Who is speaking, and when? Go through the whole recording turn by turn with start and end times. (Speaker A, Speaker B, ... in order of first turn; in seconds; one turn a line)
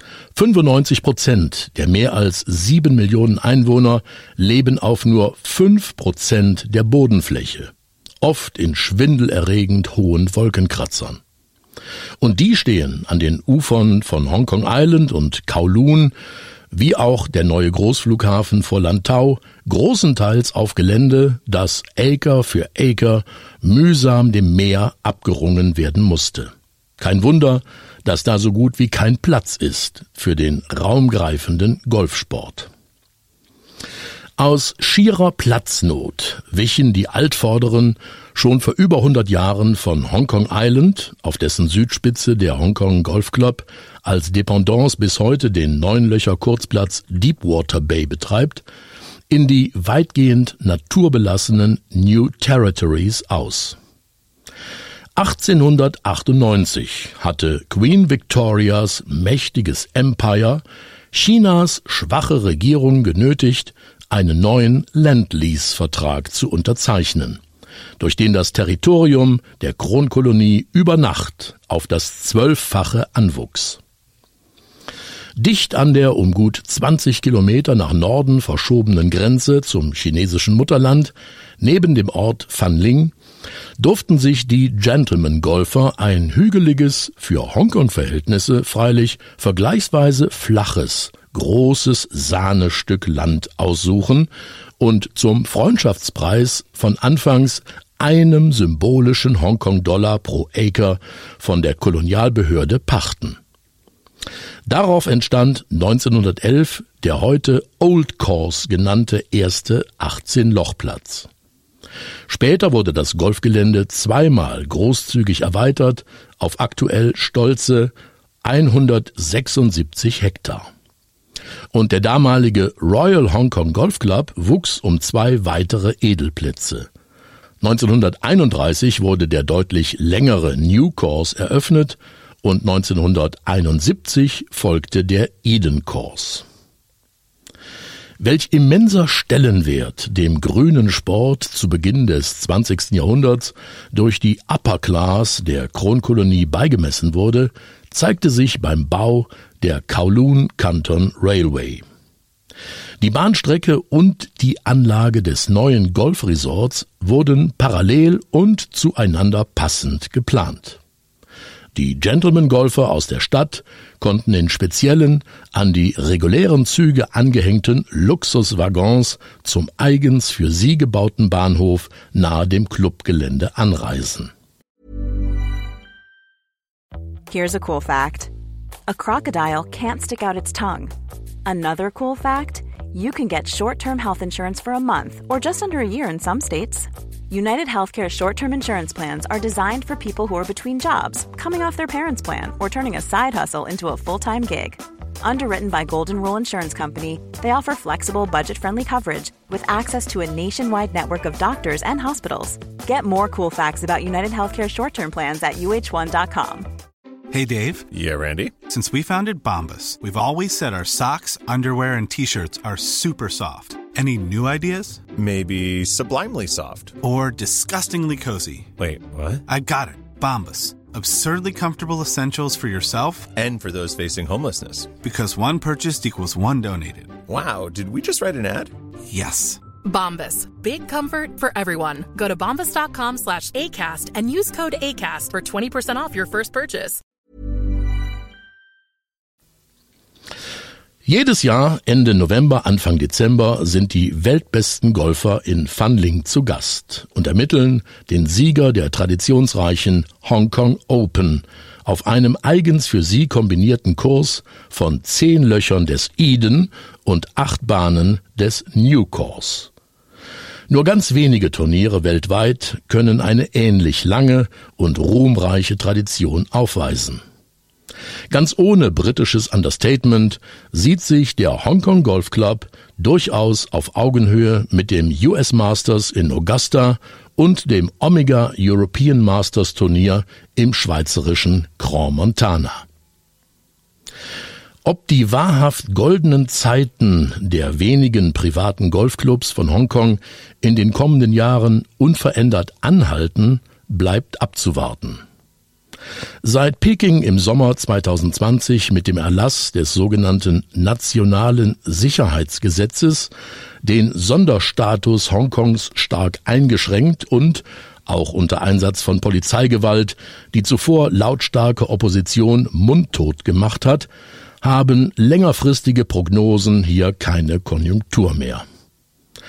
Speaker A: 0.3-11.2
Speaker A: 12.2-16.1
Speaker A: 16.7-32.7
Speaker A: 34.4-48.6
Speaker A: 49.3-53.8
Speaker A: 55.2-67.4
Speaker A: 68.0-73.8
Speaker A: 75.4-83.1
Speaker A: 83.8-103.4
Speaker A: 104.7-111.3
Speaker A: 112.3-117.9
Speaker A: 118.4-120.7
Speaker A: 121.7-126.9
Speaker A: 127.6-136.4
Speaker A: 138.2-151.8
Speaker A: 153.0-160.8
Speaker A: 161.8-174.3
Speaker B: 177.3-178.3
Speaker B: 178.9-180.9
Speaker B: 181.5-206.7
Speaker C: 207.3-207.9
Speaker D: 207.9-208.6
Speaker C: 208.7-215.1
Speaker D: 215.1-217.0
Speaker C: 217.0-218.7
Speaker D: 218.8-219.4
Speaker C: 219.5-223.3
Speaker D: 223.3-224.9
Speaker C: 225.0-227.2
Speaker D: 227.2-228.7
Speaker C: 229.1-229.6
Speaker E: 229.8-237.0
Speaker A: 241.1-259.7
Speaker A: 260.7-267.2
Speaker A: 268.3-282.9
Speaker A: 284.9-295.2
Speaker A: 296.4-303.3
Speaker A: 303.8-314.1
Speaker A: 314.6-318.6